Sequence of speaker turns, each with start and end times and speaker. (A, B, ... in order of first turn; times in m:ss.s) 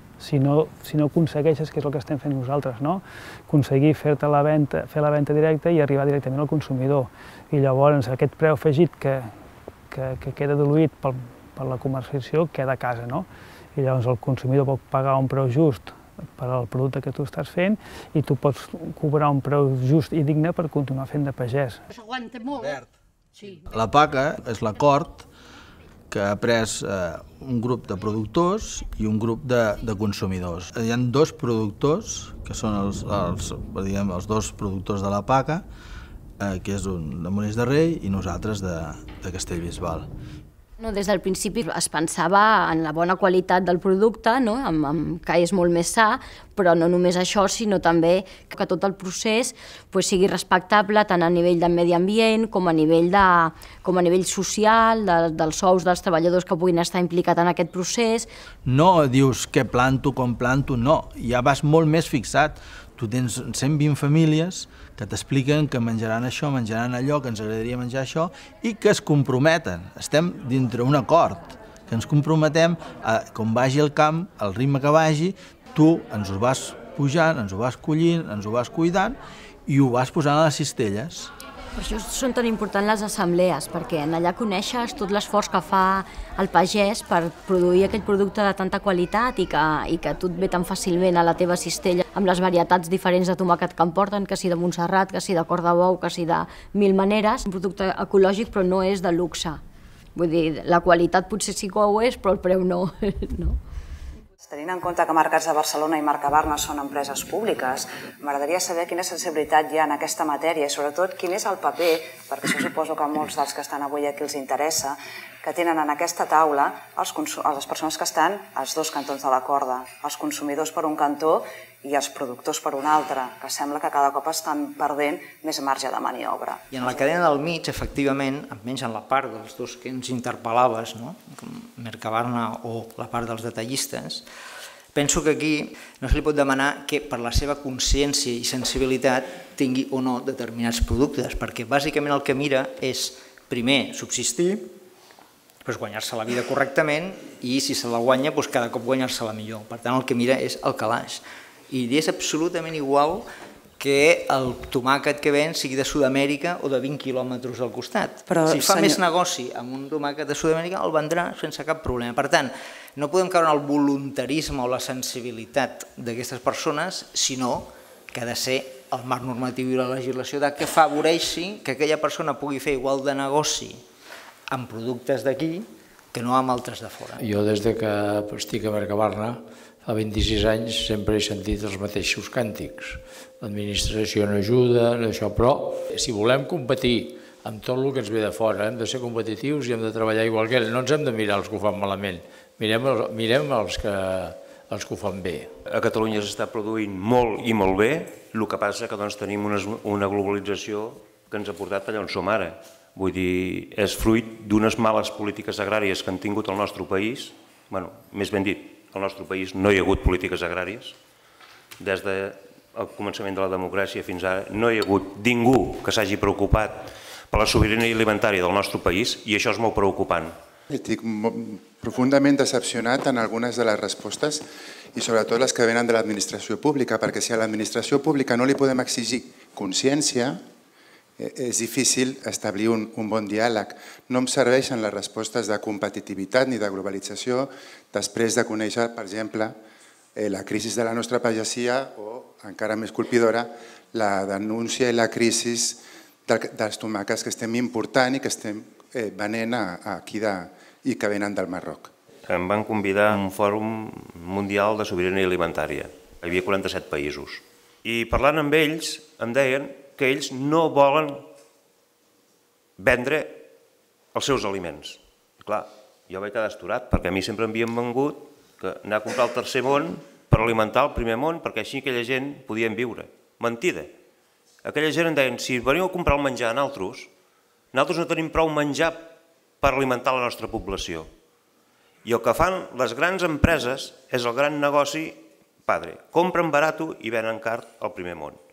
0:00.2-0:09.4 A
0:09.9-0:21.8 A
0:23.5-0:25.2 B
0:26.1-0:35.7 B
0:36.4-0:40.1 B
0:40.8-0:58.3 C
0:58.7-1:21.3 B
1:21.8-1:39.6 C
1:40.2-1:43.6 C
1:44.5-2:07.0 D
2:06.7-2:14.3 E
2:14.9-2:24.7 E
2:25.6-2:33.3 E
2:33.8-2:53.8 E
2:38.3-2:39.0 D
2:54.5-2:57.2 E
3:05.3-3:05.5 F
3:06.3-3:07.1 F
3:07.7-3:12.2 F
3:13.0-3:13.6 F
3:15.0-3:15.5 F
3:15.7-3:31.0 G
3:31.8-3:40.4 G
3:40.7-3:44.4 H
3:45.0-3:50.4 H
3:51.2-3:59.6 H
4:00.2-4:11.9 H
4:12.3-4:21.3 G
4:22.8-4:23.5 G
4:24.1-4:33.9 G
4:34.6-4:37.1 G
4:37.7-4:41.1 G
4:42.0-4:48.4 G